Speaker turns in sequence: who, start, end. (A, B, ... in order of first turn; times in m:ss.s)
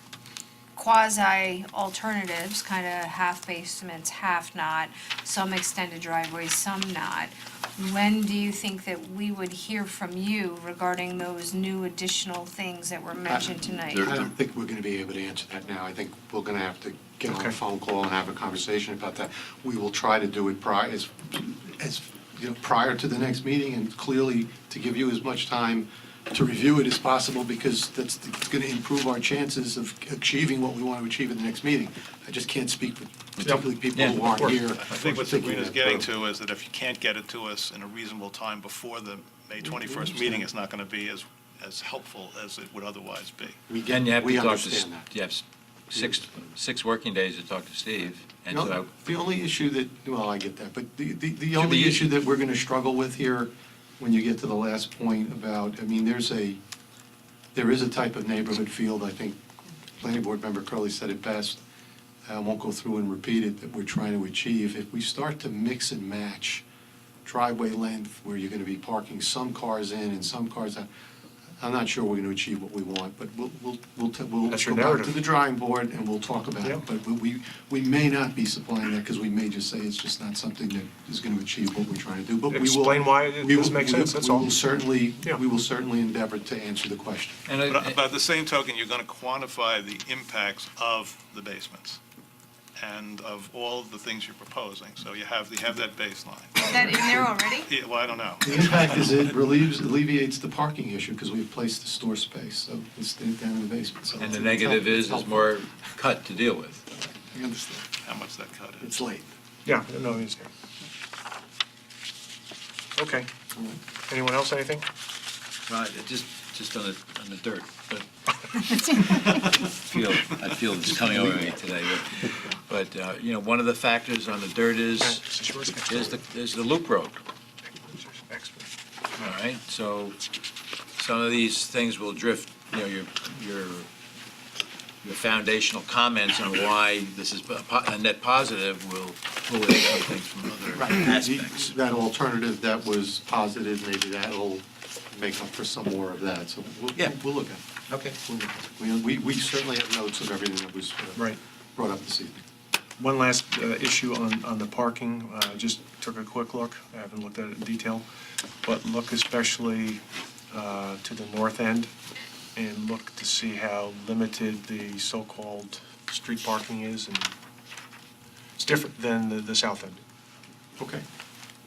0:00.8-0:14.2 A
0:13.2-0:36.1 B
0:33.4-0:34.7 C
0:34.7-0:43.6 D
0:39.6-0:40.4 B
0:43.7-0:45.1 B
0:43.8-0:48.9 C
0:48.5-0:56.6 B
0:51.6-0:52.1 C
0:57.5-0:59.4 B
1:00.0-1:01.6 B
1:02.2-1:06.6 B
1:07.2-1:10.9 B
1:11.6-1:27.4 B
1:14.5-1:15.2 E
1:22.5-1:24.6 E
1:27.5-1:28.0 C
1:27.7-1:32.0 D
1:32.8-1:39.3 D
1:36.6-1:37.7 A
1:38.4-1:45.6 B
1:44.2-1:44.4 D
1:44.2-1:46.8 C
1:47.2-1:47.8 B
1:48.0-1:48.9 D
1:48.8-1:49.3 B
1:49.6-1:50.5 E
1:53.0-1:53.3 E
1:53.5-1:53.8 B
1:54.1-1:54.8 E
1:55.7-1:58.0 C
1:58.6-2:05.2 C
2:05.0-2:06.1 E
2:05.9-2:07.2 C
2:07.8-2:08.7 E
2:09.2-2:10.2 C
2:11.0-2:13.9 C
2:15.0-2:21.7 C
2:20.8-2:31.2 B
2:27.9-2:28.2 C
2:31.8-2:32.4 B
2:33.0-2:38.0 E
2:38.6-2:41.9 E
2:42.5-2:47.3 E
2:48.6-2:50.0 E
2:50.8-2:51.0 B